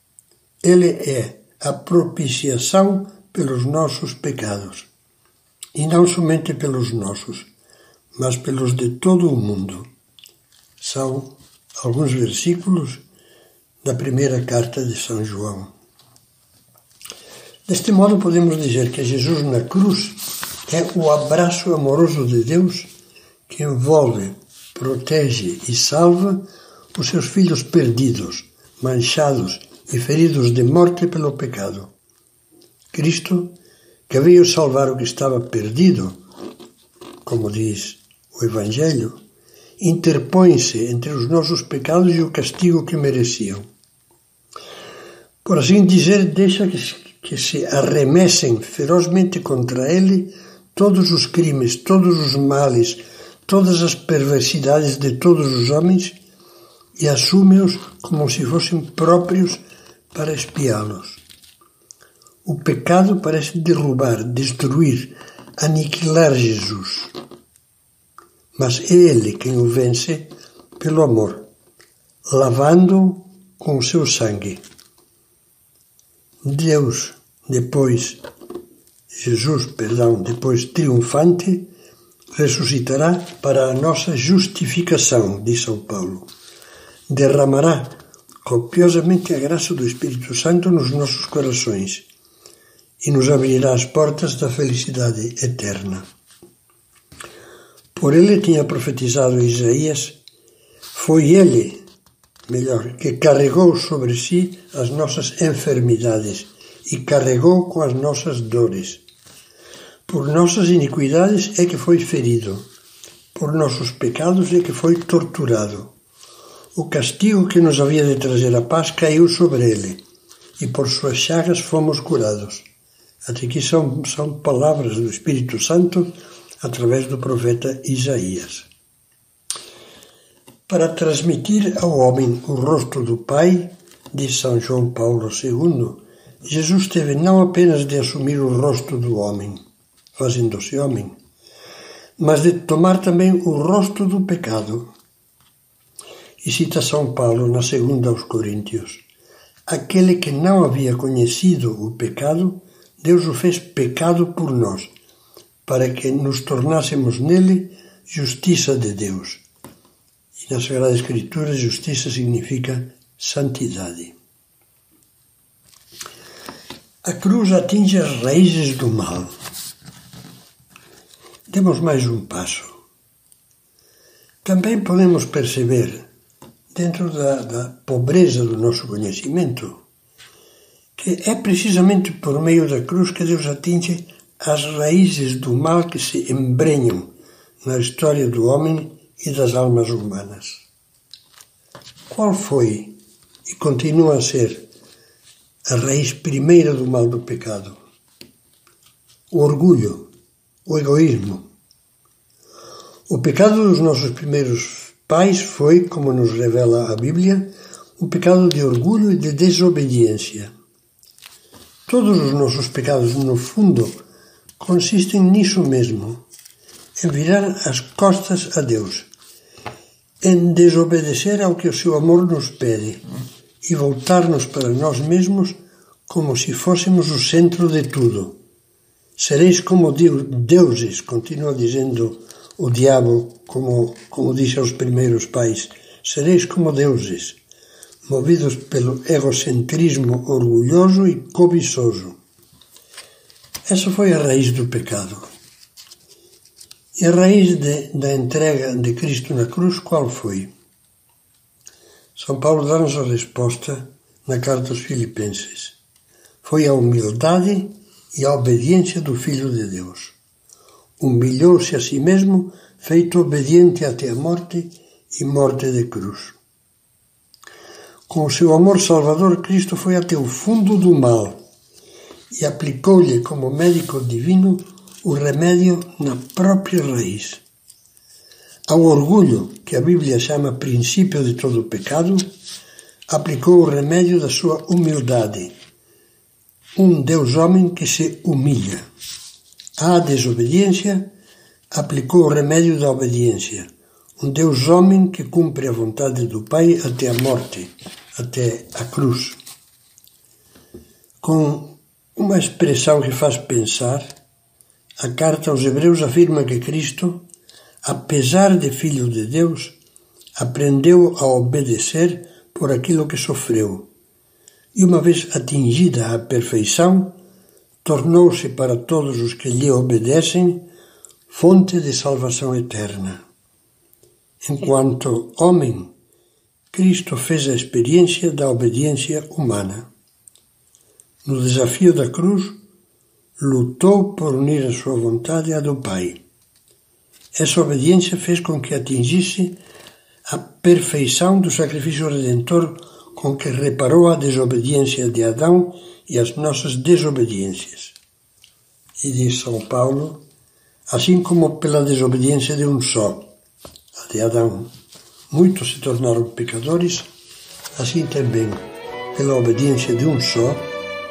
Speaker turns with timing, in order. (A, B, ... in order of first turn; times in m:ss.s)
0:00.6-0:04.9 A
0:05.7-0:07.5 A
0:08.1-0:09.8 A
0:10.8-0:13.0 A
0:13.8-0:15.7 A
0:17.7-0:22.9 A
0:23.5-0:26.4 A
0:26.9-0:31.9 A
0:32.9-0:33.5 A
0:34.1-0:36.2 A
0:37.2-0:39.2 A
0:39.8-0:43.6 A
0:45.4-0:56.2 A
0:57.0-1:01.2 A
1:02.4-1:07.1 A
1:08.5-1:11.5 A
1:12.3-1:14.6 A
1:16.4-1:18.2 A
1:19.2-1:21.7 A
1:22.3-1:26.3 A
1:27.1-1:32.1 A
1:33.0-1:36.0 A
1:38.0-1:40.2 A
1:40.9-1:41.8 A
1:42.5-1:49.0 A
1:50.1-1:52.7 A
1:53.3-1:55.9 A
1:56.7-2:00.0 A
2:00.6-2:02.7 A
2:03.2-2:08.7 A
2:10.7-2:19.6 A
2:20.1-2:21.2 A
2:22.2-2:24.9 A
2:26.4-2:29.0 A
2:29.7-2:34.9 A
2:35.6-2:39.4 A
2:40.4-2:44.2 A
2:47.0-2:49.3 A
2:51.5-2:52.7 A
2:54.4-2:56.0 A
2:56.7-2:59.8 A
3:01.0-3:07.1 A
3:07.6-3:10.7 A
3:12.1-3:14.6 A
3:15.6-3:17.8 A
3:19.3-3:20.1 A
3:20.6-3:21.4 A
3:23.1-3:30.5 A
3:31.9-3:34.0 A
3:34.6-3:36.2 A
3:37.0-3:39.1 A
3:40.2-3:43.0 A
3:43.6-3:45.6 A
3:46.1-3:48.4 A
3:49.2-3:57.4 A
3:58.0-4:02.2 A
4:03.6-4:05.3 A
4:07.0-4:10.5 A
4:12.2-4:15.8 A
4:16.4-4:20.2 A
4:21.0-4:26.4 A
4:28.1-4:31.4 A
4:32.3-4:37.4 A
4:38.7-4:42.3 A
4:43.1-4:45.5 A
4:46.8-4:48.8 A
4:49.8-4:51.1 A
4:51.7-4:59.4 A
5:01.2-5:04.1 A
5:05.0-5:07.3 A
5:07.8-5:09.8 A
5:10.4-5:13.9 A
5:14.7-5:17.2 A
5:17.8-5:20.7 A
5:21.3-5:23.2 A
5:24.4-5:25.9 A
5:26.7-5:29.9 A
5:31.2-5:32.6 A
5:33.4-5:36.2 A
5:37.3-5:39.6 A
5:40.3-5:48.0 A
5:49.0-5:50.2 A
5:50.9-5:53.3 A
5:53.9-5:54.7 A
5:55.3-5:57.1 A
5:57.8-6:00.7 A